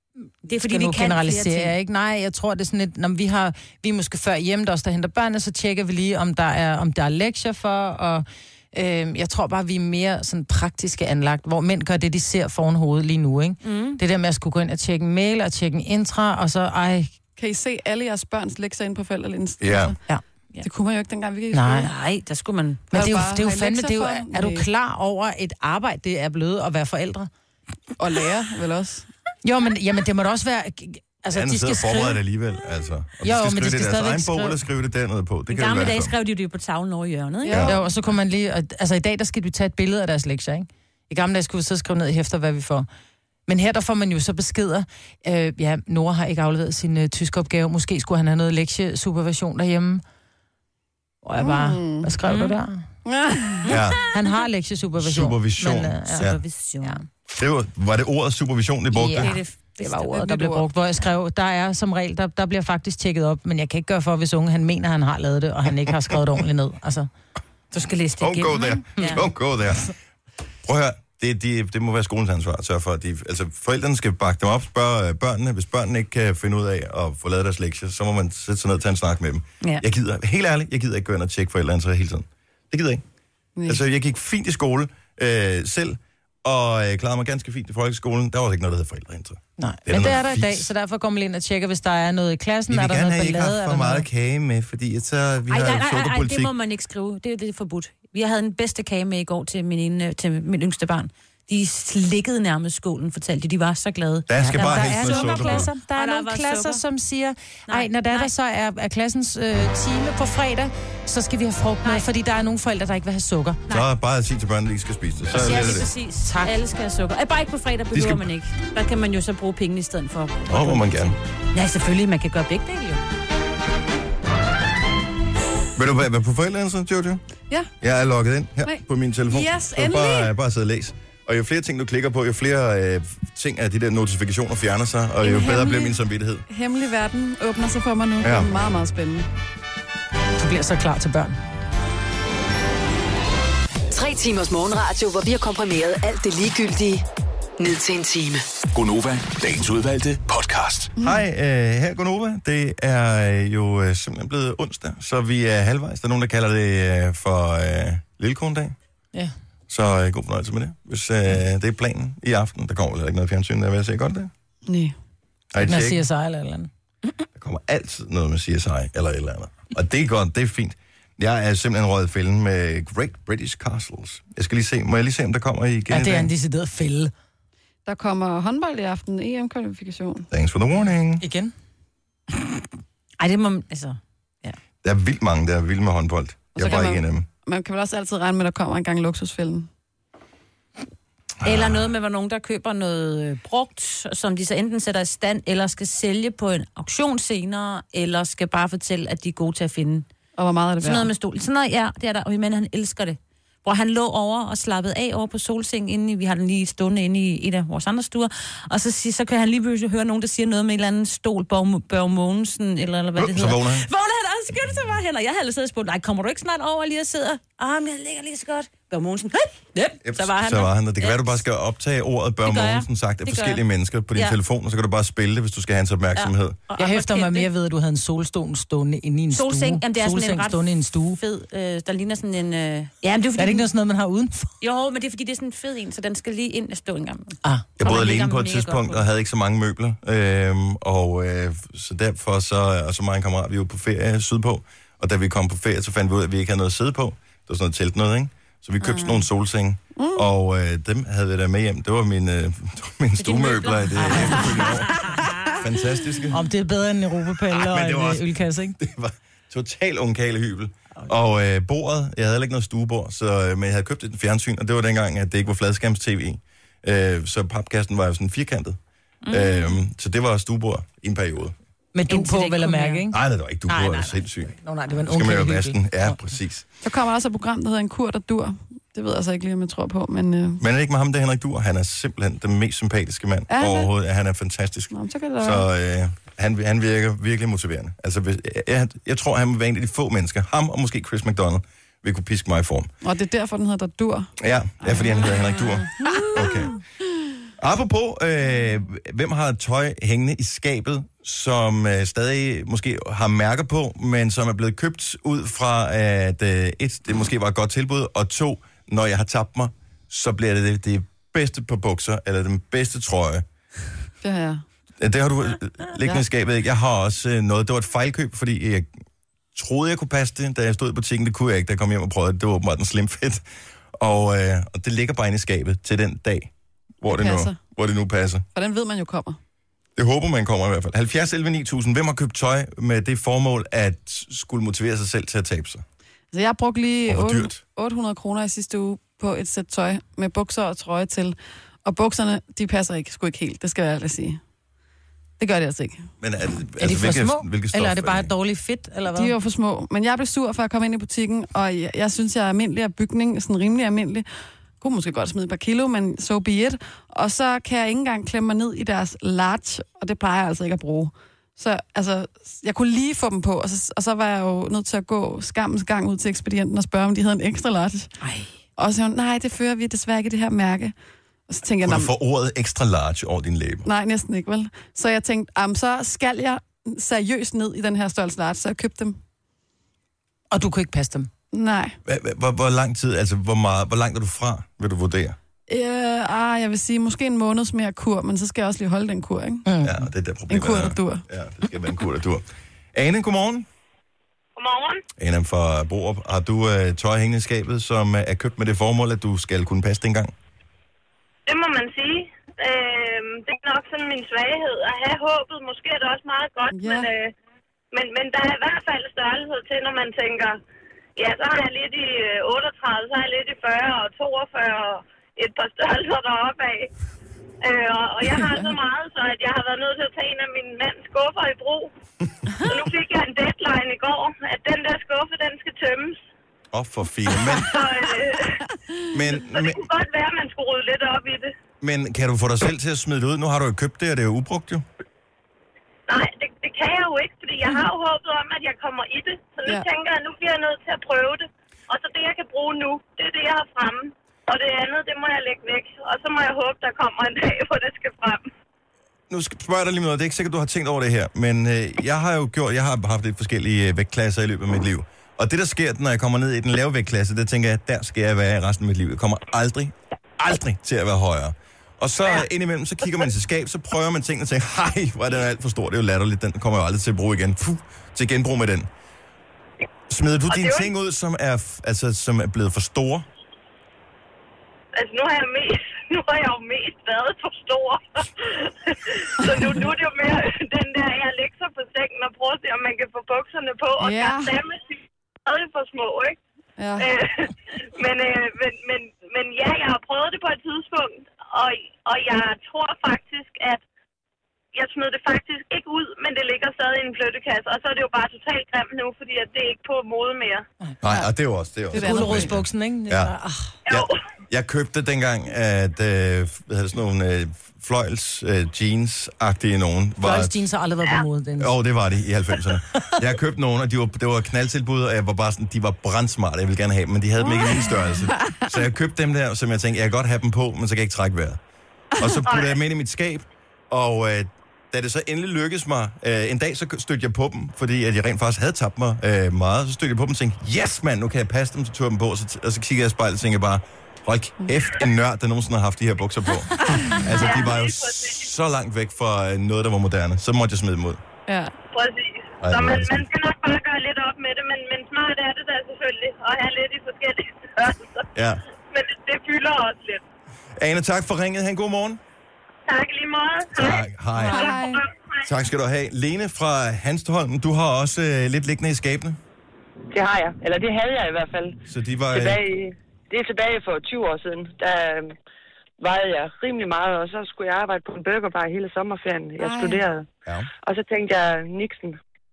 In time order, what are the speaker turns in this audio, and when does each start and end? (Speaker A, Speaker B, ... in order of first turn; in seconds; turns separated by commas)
Speaker A: 0.5-17.1, Speaker B: 0.5-1.7, Speaker B: 13.6-14.0, Speaker C: 17.4-20.0, Speaker D: 19.6-19.9, Speaker C: 20.6-21.9, Speaker A: 21.5-21.9, Speaker B: 21.8-22.9, Speaker C: 22.9-24.7, Speaker A: 22.9-27.3, Speaker C: 28.0-29.1, Speaker A: 29.4-32.2, Speaker D: 31.3-36.1, Speaker A: 33.2-34.6, Speaker B: 35.5-37.9, Speaker C: 37.4-37.8, Speaker A: 37.6-42.9, Speaker A: 43.5-50.0, Speaker A: 51.2-52.8, Speaker C: 51.4-52.1, Speaker B: 52.2-52.5, Speaker C: 53.0-53.7, Speaker D: 53.7-54.0, Speaker A: 54.1-56.3, Speaker D: 55.0-56.4, Speaker B: 56.1-57.0, Speaker D: 57.3-59.4, Speaker A: 58.9-67.1, Speaker B: 59.1-60.3, Speaker C: 60.1-60.6, Speaker B: 67.7-69.2, Speaker D: 68.2-69.9, Speaker A: 69.0-69.2, Speaker D: 70.6-83.0, Speaker C: 83.5-83.8, Speaker D: 83.7-90.7, Speaker A: 89.6-94.0, Speaker D: 92.7-96.5, Speaker B: 95.5-106.8, Speaker D: 104.3-105.7, Speaker A: 104.5-113.6, Speaker B: 107.7-108.3, Speaker D: 113.7-115.9, Speaker B: 115.3-123.0, Speaker A: 116.2-116.5, Speaker D: 117.9-118.3, Speaker D: 120.5-121.1, Speaker D: 125.8-127.2, Speaker D: 127.8-136.4, Speaker C: 128.6-130.3, Speaker C: 135.2-136.0, Speaker C: 136.5-139.3, Speaker D: 138.2-138.5, Speaker A: 140.4-141.4, Speaker E: 143.9-147.1, Speaker E: 147.6-148.4, Speaker F: 148.7-150.9, Speaker D: 151.0-158.7, Speaker D: 159.7-164.3, Speaker C: 164.7-164.9, Speaker D: 165.5-166.0, Speaker A: 165.6-166.7, Speaker D: 167.3-176.3, Speaker A: 175.9-177.1, Speaker C: 177.8-180.3, Speaker D: 180.3-181.2, Speaker A: 181.2-181.5, Speaker B: 183.2-184.6, Speaker D: 184.8-187.2, Speaker C: 186.6-189.7, Speaker D: 191.4-191.9, Speaker B: 191.4-200.1, Speaker C: 200.4-201.1, Speaker B: 200.8-221.4, Speaker D: 213.2-213.8, Speaker D: 220.0-226.6, Speaker B: 222.4-223.6, Speaker B: 226.2-227.5, Speaker A: 226.8-231.2, Speaker B: 229.3-233.7, Speaker A: 233.4-234.5, Speaker B: 234.6-239.1, Speaker D: 237.8-256.4, Speaker C: 248.9-249.2, Speaker C: 250.0-250.3, Speaker B: 253.2-255.5, Speaker A: 254.0-254.4, Speaker A: 256.3-258.8, Speaker D: 257.4-268.8, Speaker B: 269.2-269.8, Speaker D: 269.3-271.6, Speaker A: 271.9-276.2, Speaker B: 272.1-273.0, Speaker D: 273.1-276.6, Speaker C: 276.8-280.6, Speaker D: 280.6-292.9, Speaker C: 283.5-283.9, Speaker C: 284.9-285.6, Speaker C: 293.0-294.3, Speaker D: 294.4-296.8, Speaker C: 294.8-295.4, Speaker C: 296.0-296.6, Speaker D: 297.6-313.4, Speaker C: 314.2-314.6, Speaker D: 315.0-318.9, Speaker D: 319.5-323.4, Speaker D: 323.9-328.4, Speaker C: 327.1-327.6, Speaker C: 328.5-329.4, Speaker D: 329.9-335.8, Speaker C: 336.3-344.4, Speaker D: 337.1-337.6, Speaker C: 345.4-346.0, Speaker D: 346.2-348.3, Speaker A: 346.8-349.3, Speaker C: 349.1-354.2, Speaker C: 354.8-368.1, Speaker C: 368.8-370.9, Speaker C: 371.5-372.1, Speaker D: 371.8-373.9, Speaker C: 373.8-379.2, Speaker A: 380.5-381.3, Speaker C: 381.5-381.9, Speaker D: 382.1-385.4, Speaker C: 385.7-389.7, Speaker A: 389.6-390.0, Speaker D: 389.8-393.7, Speaker C: 390.5-391.2, Speaker G: 394.6-395.0, Speaker D: 395.2-400.3, Speaker G: 401.4-407.3, Speaker C: 406.7-407.1, Speaker G: 407.9-410.6, Speaker G: 411.2-416.9, Speaker G: 417.6-421.9, Speaker G: 422.6-426.2, Speaker D: 426.7-427.8, Speaker G: 427.5-428.6, Speaker D: 429.1-429.8, Speaker G: 429.3-431.5, Speaker D: 431.8-434.8, Speaker G: 436.1-448.5, Speaker D: 449.3-468.9, Speaker D: 470.1-473.3, Speaker G: 470.5-470.9, Speaker G: 474.9-486.4, Speaker C: 479.4-479.9, Speaker C: 484.0-484.5, Speaker C: 486.8-487.1, Speaker G: 487.0-493.8, Speaker G: 494.7-500.6, Speaker D: 501.0-503.3, Speaker C: 501.9-502.5, Speaker A: 501.9-503.8, Speaker G: 503.9-504.2, Speaker D: 503.9-510.6, Speaker A: 510.2-511.7, Speaker D: 511.6-521.6, Speaker C: 517.4-518.6, Speaker D: 522.2-541.2, Speaker G: 522.4-522.8, Speaker G: 537.3-538.5, Speaker C: 541.5-541.7, Speaker G: 541.9-548.3, Speaker D: 542.6-543.3, Speaker D: 548.3-548.6, Speaker G: 548.9-550.2, Speaker D: 550.8-552.2, Speaker G: 552.9-555.4, Speaker D: 553.7-554.8, Speaker C: 554.4-555.0, Speaker D: 555.4-559.4, Speaker H: 560.1-561.8, Speaker D: 561.9-562.6, Speaker H: 562.3-565.3, Speaker H: 566.0-570.3, Speaker C: 569.6-570.0, Speaker H: 570.8-572.2